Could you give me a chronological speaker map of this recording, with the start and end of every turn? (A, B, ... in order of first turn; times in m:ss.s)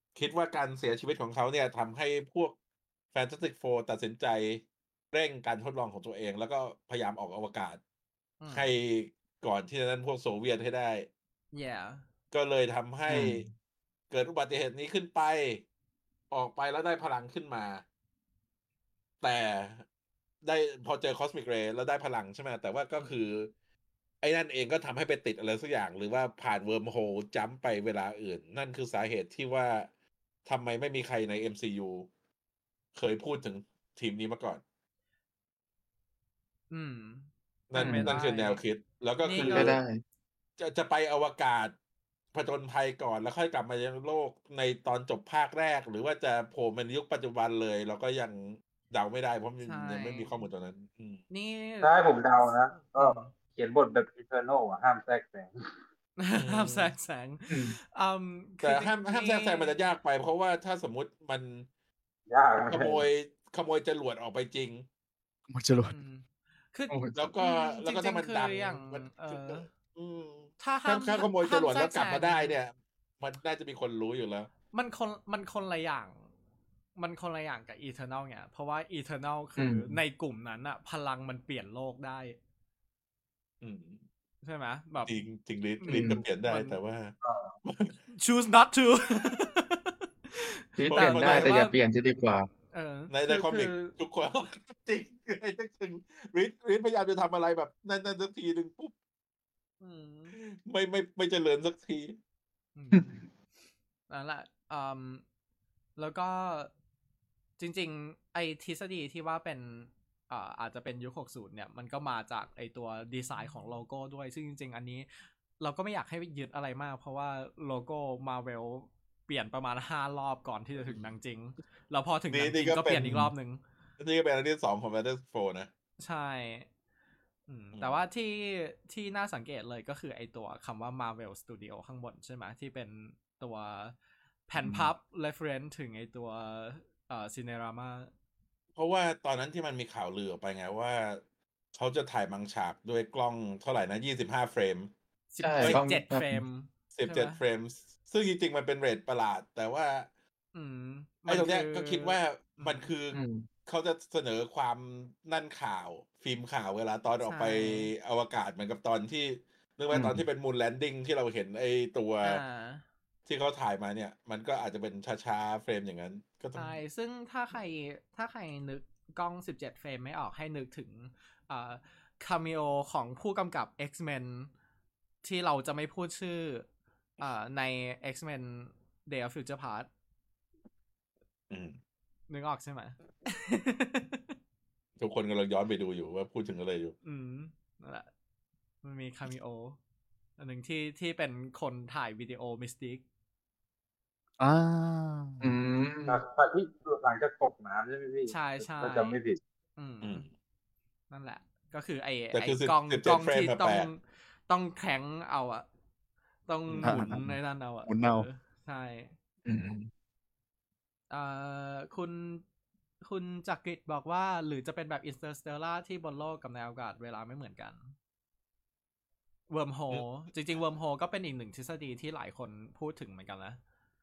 0:00.2-0:02.6 A
0:03.1-0:07.8 A
0:08.4-0:08.7 B
0:08.5-0:11.1 A
0:11.5-0:12.0 B
0:12.3-0:13.5 A
0:13.1-0:13.5 C
0:14.1-0:15.6 A
0:16.3-0:17.8 A
0:19.2-0:19.8 A
0:20.4-0:23.5 A
0:24.2-0:29.9 A
0:30.4-0:32.1 A
0:32.9-0:34.6 A
0:36.7-0:38.6 B
0:37.7-0:39.8 A
0:37.7-0:38.2 C
0:39.2-0:39.8 B
0:39.4-0:40.0 C
0:40.6-0:41.7 A
0:42.3-0:51.2 A
0:49.6-0:50.4 B
0:51.3-0:53.3 B
0:51.8-0:55.6 D
0:56.2-0:59.8 B
0:56.3-0:56.9 A
0:57.5-0:57.8 C
0:58.6-1:01.7 A
1:02.3-1:03.1 D
1:02.7-1:04.8 A
1:05.5-1:05.9 E
1:05.9-1:09.7 B
1:06.9-1:07.3 C
1:07.2-1:14.5 A
1:10.6-1:12.6 B
1:14.7-1:16.3 B
1:17.0-1:22.4 B
1:19.6-1:20.0 C
1:23.6-1:24.0 A
1:24.4-1:25.2 B
1:25.1-1:28.0 A
1:25.8-1:26.8 B
1:25.9-1:26.2 C
1:27.2-1:27.5 D
1:28.1-1:31.8 B
1:30.8-1:32.5 C
1:30.9-1:31.6 A
1:32.7-1:34.0 B
1:33.1-1:38.9 A
1:39.8-1:40.4 B
1:40.3-1:42.2 A
1:42.8-1:43.2 B
1:42.9-1:43.2 C
1:44.1-1:45.2 B
1:46.0-1:46.7 B
1:47.6-2:03.6 B
2:02.3-2:03.2 A
2:03.0-2:03.3 C
2:04.0-2:05.7 A
2:06.0-2:06.7 B
2:07.5-2:14.0 B
2:14.5-2:18.1 B
2:14.6-2:14.9 C
2:18.8-2:21.2 A
2:21.8-2:24.9 A
2:25.3-2:27.4 B
2:25.4-2:26.4 C
2:26.9-2:30.1 A
2:30.5-2:32.9 B
2:31.3-2:42.4 A
2:33.1-2:33.5 C
2:37.2-2:37.9 B
2:39.9-2:40.2 C
2:42.2-2:42.8 B
2:43.3-2:46.8 A
2:46.6-2:54.5 B
2:55.2-2:56.7 B
2:57.2-2:59.9 B
3:01.5-3:01.8 A
3:02.3-3:04.3 B
3:05.0-3:07.0 A
3:07.0-3:08.1 B
3:08.8-3:09.8 B
3:10.4-3:13.0 B
3:14.4-3:15.4 E
3:15.4-3:16.2 C
3:16.1-3:19.4 D
3:18.3-3:19.2 B
3:19.8-3:20.3 B
3:20.0-3:20.3 A
3:21.1-3:25.7 B
3:22.3-3:23.9 A
3:26.5-3:29.1 B
3:26.7-3:27.0 A
3:26.8-3:28.3 E
3:29.4-3:29.9 C
3:31.1-3:32.4 B
3:33.0-3:37.9 B
3:39.5-3:43.6 B